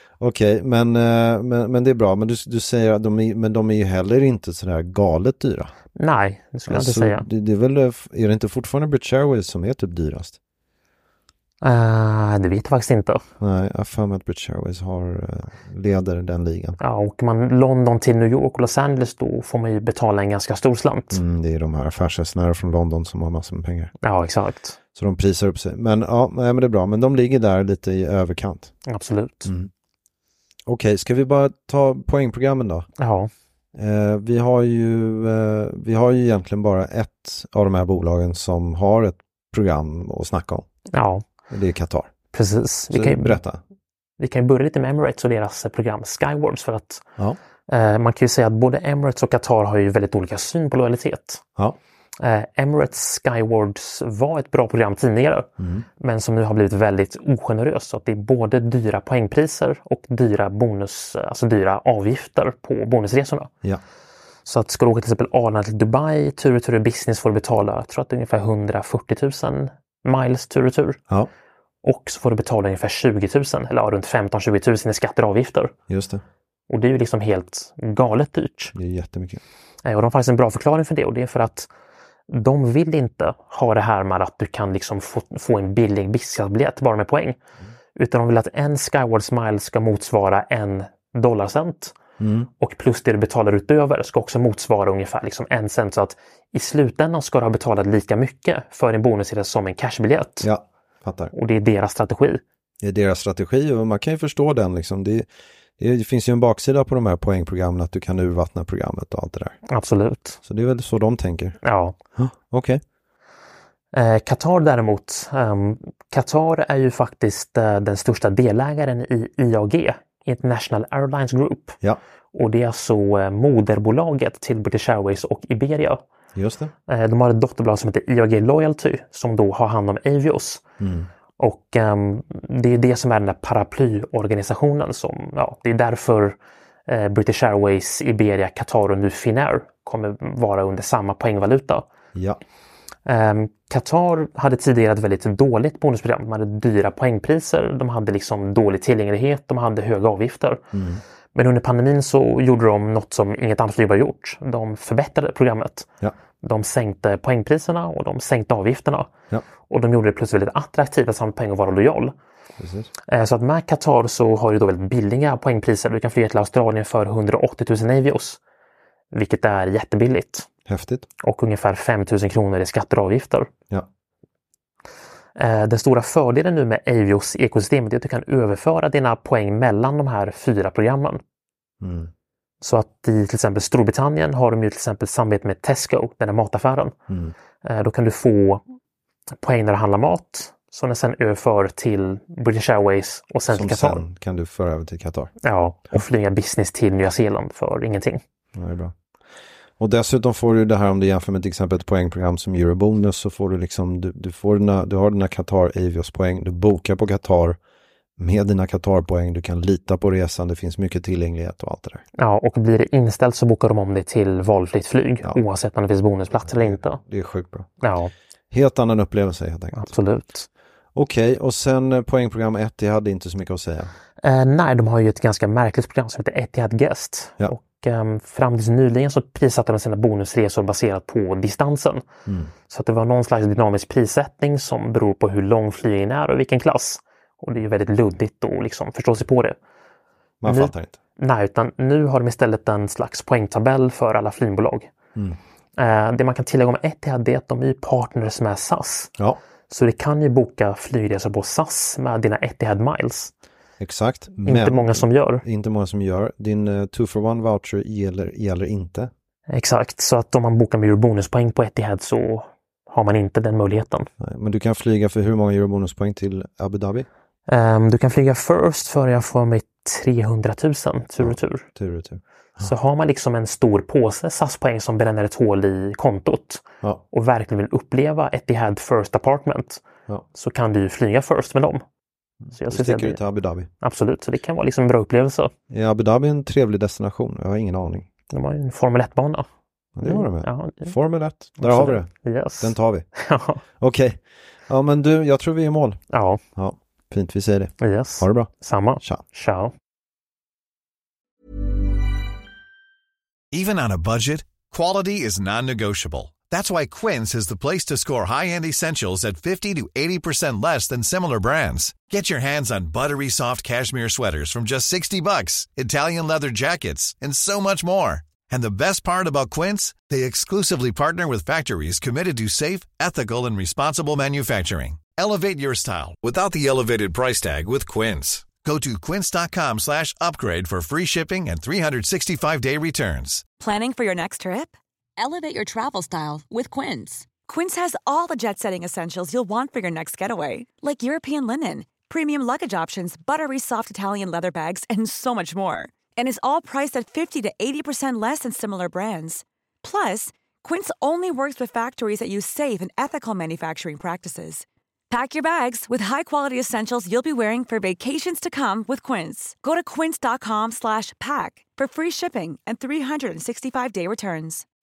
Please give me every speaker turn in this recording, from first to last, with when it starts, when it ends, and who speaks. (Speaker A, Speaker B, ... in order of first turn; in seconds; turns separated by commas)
Speaker A: 0.2-5.7, Speaker B: 6.0-7.2, Speaker A: 6.7-10.4, Speaker B: 11.6-13.2, Speaker A: 13.4-16.8, Speaker B: 16.8-21.2, Speaker A: 21.1-23.9, Speaker B: 24.0-24.8, Speaker A: 24.9-28.7, Speaker B: 28.9-29.5, Speaker A: 30.6-32.9, Speaker B: 33.0-33.3, Speaker A: 33.7-40.7, Speaker B: 40.9-41.2, Speaker A: 41.5-42.1, Speaker B: 42.3-43.4, Speaker A: 42.9-43.6, Speaker B: 44.2-47.0, Speaker B: 47.7-51.4, Speaker B: 52.2-55.5, Speaker A: 55.6-55.9, Speaker B: 56.0-63.5, Speaker B: 64.5-71.0, Speaker B: 71.8-75.7, Speaker A: 75.9-76.2, Speaker B: 76.7-78.7, Speaker A: 78.7-79.4, Speaker B: 79.8-81.7, Speaker B: 82.3-87.4, Speaker B: 88.0-92.0, Speaker A: 92.2-92.5, Speaker B: 92.6-100.5, Speaker A: 100.4-101.3, Speaker B: 101.3-102.4, Speaker A: 102.8-105.3, Speaker A: 105.8-109.6, Speaker B: 109.7-110.4, Speaker A: 110.4-111.6, Speaker B: 111.6-112.0, Speaker A: 112.1-112.8, Speaker B: 113.9-121.8, Speaker B: 122.3-126.0, Speaker A: 126.3-126.7, Speaker B: 126.9-130.6, Speaker A: 130.8-131.1, Speaker B: 131.4-141.8, Speaker A: 142.1-142.4, Speaker B: 143.1-150.7, Speaker A: 150.7-151.0, Speaker B: 151.3-155.9, Speaker B: 156.4-159.1, Speaker B: 159.7-162.1, Speaker A: 162.6-162.9, Speaker B: 163.1-168.4, Speaker B: 169.1-170.5, Speaker A: 170.7-171.1, Speaker B: 171.2-173.5, Speaker B: 175.3-181.2, Speaker A: 181.8-182.1, Speaker B: 182.6-186.9, Speaker A: 187.1-187.3, Speaker B: 187.6-188.6, Speaker B: 189.3-194.0, Speaker A: 193.5-195.3, Speaker B: 195.4-198.2, Speaker A: 198.5-198.9, Speaker A: 199.8-207.6, Speaker A: 208.2-212.0, Speaker B: 212.2-217.0, Speaker A: 216.4-217.7, Speaker B: 217.8-218.1, Speaker A: 218.5-219.9, Speaker B: 219.7-220.5, Speaker A: 220.9-223.9, Speaker B: 224.2-232.0, Speaker A: 232.2-232.5, Speaker B: 232.7-239.6, Speaker A: 240.4-240.9, Speaker B: 240.5-244.9, Speaker B: 245.8-249.1, Speaker B: 249.7-253.3, Speaker A: 253.8-259.1, Speaker B: 254.4-255.4, Speaker B: 259.5-264.1, Speaker A: 264.2-267.1, Speaker B: 267.5-271.6, Speaker A: 271.2-272.7, Speaker B: 272.6-279.8, Speaker B: 280.3-281.8, Speaker A: 282.4-283.7, Speaker B: 282.5-283.2, Speaker B: 283.8-285.5, Speaker A: 285.7-288.1, Speaker B: 288.3-289.4, Speaker A: 289.9-293.1, Speaker B: 290.0-290.9, Speaker B: 291.6-293.6, Speaker A: 293.8-296.0, Speaker B: 296.1-296.4, Speaker A: 296.6-298.5, Speaker B: 297.8-299.7, Speaker C: 303.5-333.4, Speaker D: 333.6-364.6